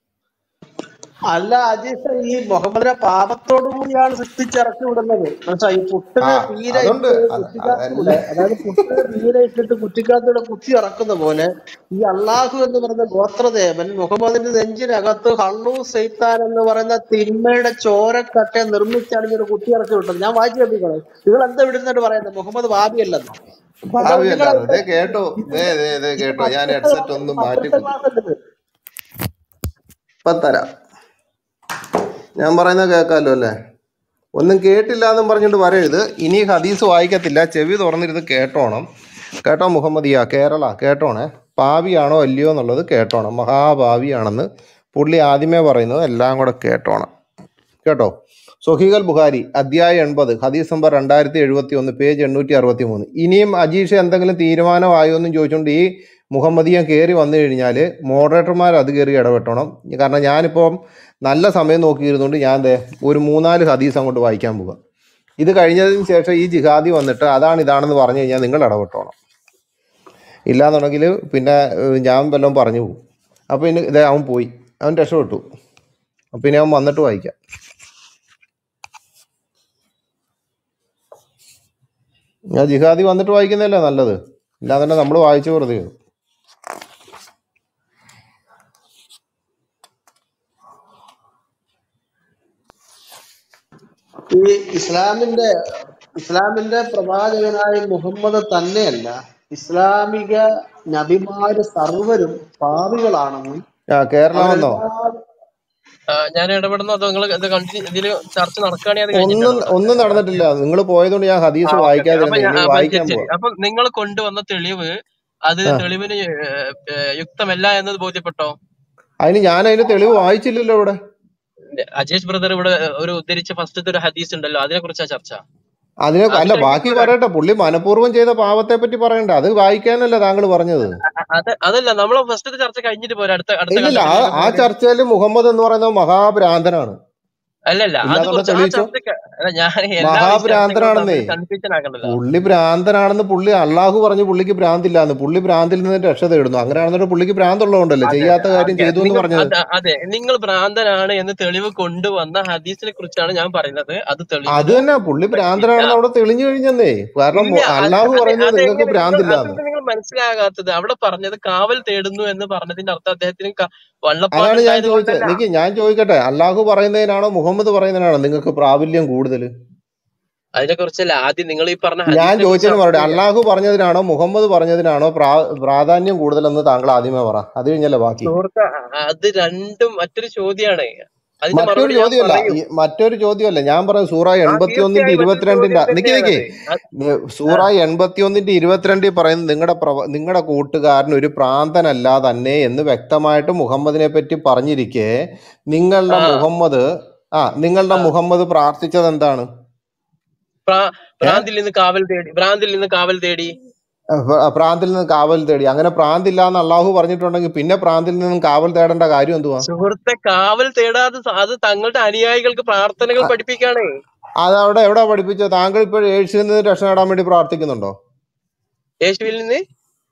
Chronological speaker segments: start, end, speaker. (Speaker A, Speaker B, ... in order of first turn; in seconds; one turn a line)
Speaker A: 1.3-23.4
Speaker B: 6.2-9.0
Speaker B: 23.9-27.9
Speaker A: 24.0-24.8
Speaker A: 25.4-28.4
Speaker B: 30.2-30.7
Speaker B: 32.4-33.5
Speaker B: 34.4-38.8
Speaker B: 39.4-47.1
Speaker B: 47.8-48.1
Speaker B: 48.6-60.7
Speaker B: 61.2-64.8
Speaker B: 65.4-69.1
Speaker B: 70.5-73.0
Speaker B: 73.5-75.4
Speaker B: 76.3-77.3
Speaker B: 82.5-85.9
Speaker A: 94.3-95.5
Speaker A: 96.2-103.6
Speaker B: 103.9-104.8
Speaker A: 104.3-105.2
Speaker C: 106.1-110.3
Speaker B: 109.1-113.3
Speaker C: 111.7-114.9
Speaker C: 115.5-118.5
Speaker B: 119.2-120.9
Speaker C: 121.7-125.4
Speaker B: 126.0-130.9
Speaker C: 126.3-127.1
Speaker C: 131.3-134.7
Speaker B: 133.7-137.0
Speaker C: 137.7-142.2
Speaker B: 138.0-138.9
Speaker B: 140.0-141.3
Speaker B: 142.0-149.5
Speaker C: 148.1-155.9
Speaker B: 154.5-159.6
Speaker C: 157.3-165.4
Speaker B: 164.3-169.5
Speaker C: 170.6-173.2
Speaker B: 172.1-178.3
Speaker C: 178.2-180.9
Speaker C: 181.4-182.5
Speaker B: 181.5-186.4
Speaker C: 184.5-186.8
Speaker B: 187.0-195.1
Speaker B: 195.7-196.8
Speaker C: 196.1-196.4
Speaker B: 197.3-199.5
Speaker C: 200.7-203.5
Speaker B: 204.1-209.7
Speaker C: 209.6-213.8
Speaker B: 214.4-217.9
Speaker C: 219.0-219.6